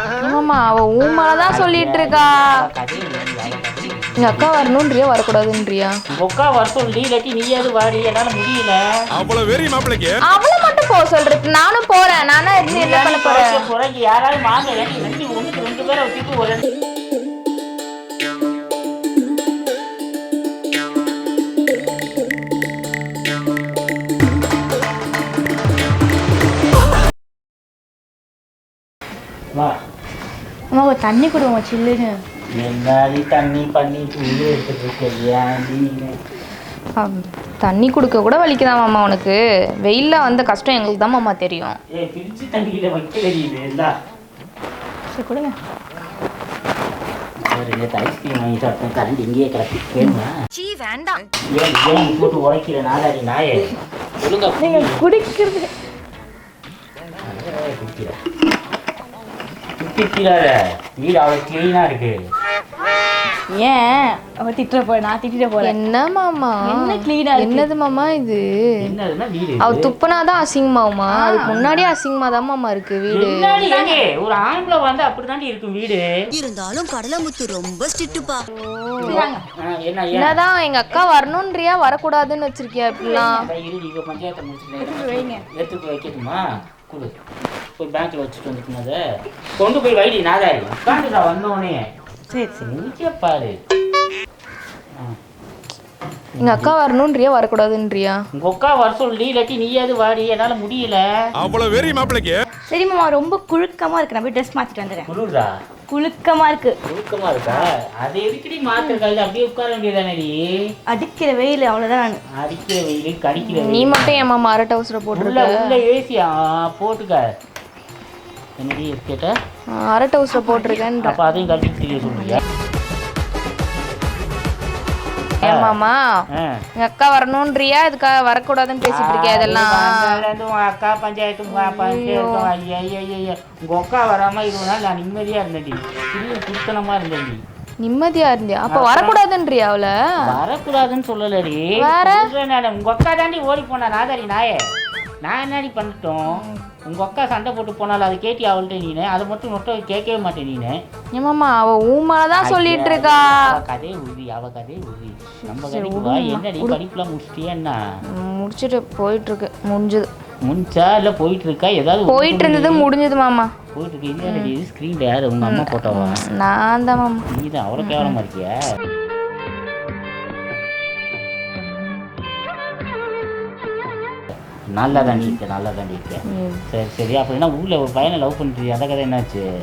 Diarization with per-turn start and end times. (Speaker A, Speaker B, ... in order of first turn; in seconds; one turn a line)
Speaker A: 0.2-2.6
Speaker B: 1.5-4.6
Speaker A: 4.2-6.0
Speaker B: 6.1-8.8
Speaker C: 9.1-10.2
Speaker A: 10.3-13.6
Speaker B: 12.7-16.6
Speaker D: 30.7-32.2
Speaker B: 32.5-36.2
Speaker A: 37.0-41.8
Speaker B: 41.9-43.9
Speaker D: 45.1-45.6
Speaker B: 47.4-50.3
Speaker E: 50.5-51.2
Speaker B: 51.5-55.0
Speaker D: 54.6-55.7
Speaker B: 57.2-58.1
Speaker B: 59.8-62.1
Speaker D: 63.5-65.7
Speaker A: 65.6-68.9
Speaker D: 66.6-67.7
Speaker B: 68.8-69.9
Speaker A: 69.6-73.8
Speaker D: 71.1-71.8
Speaker B: 73.1-76.0
Speaker E: 76.3-78.5
Speaker A: 78.6-79.2
Speaker D: 79.0-79.4
Speaker B: 79.0-80.4
Speaker A: 80.1-83.5
Speaker B: 82.9-87.1
Speaker D: 84.8-85.4
Speaker B: 87.8-89.0
Speaker B: 89.6-91.8
Speaker D: 92.3-92.6
Speaker B: 92.6-93.5
Speaker B: 96.3-96.7
Speaker A: 96.4-98.2
Speaker B: 98.3-101.0
Speaker C: 101.4-102.4
Speaker D: 102.7-105.1
Speaker B: 105.0-105.5
Speaker D: 105.9-106.8
Speaker B: 106.8-110.5
Speaker D: 110.9-112.2
Speaker B: 112.3-114.2
Speaker A: 113.4-115.8
Speaker B: 115.1-117.2
Speaker B: 118.6-119.3
Speaker A: 119.7-121.2
Speaker D: 120.3-120.8
Speaker B: 121.0-122.4
Speaker A: 125.4-126.2
Speaker B: 125.4-125.7
Speaker B: 126.3-126.6
Speaker A: 126.8-130.2
Speaker B: 128.9-137.4
Speaker A: 131.5-132.5
Speaker A: 137.8-140.4
Speaker B: 138.7-139.2
Speaker B: 140.2-144.7
Speaker A: 141.8-142.3
Speaker B: 145.2-150.8
Speaker A: 146.3-146.6
Speaker A: 151.1-153.6
Speaker B: 152.4-157.8
Speaker A: 155.4-156.8
Speaker A: 158.1-160.1
Speaker B: 160.4-162.9
Speaker A: 162.1-163.5
Speaker B: 163.7-166.2
Speaker A: 164.2-164.5
Speaker A: 165.4-167.2
Speaker B: 167.3-168.6
Speaker A: 167.8-168.1
Speaker B: 174.7-179.4
Speaker A: 174.9-175.4
Speaker A: 176.3-176.6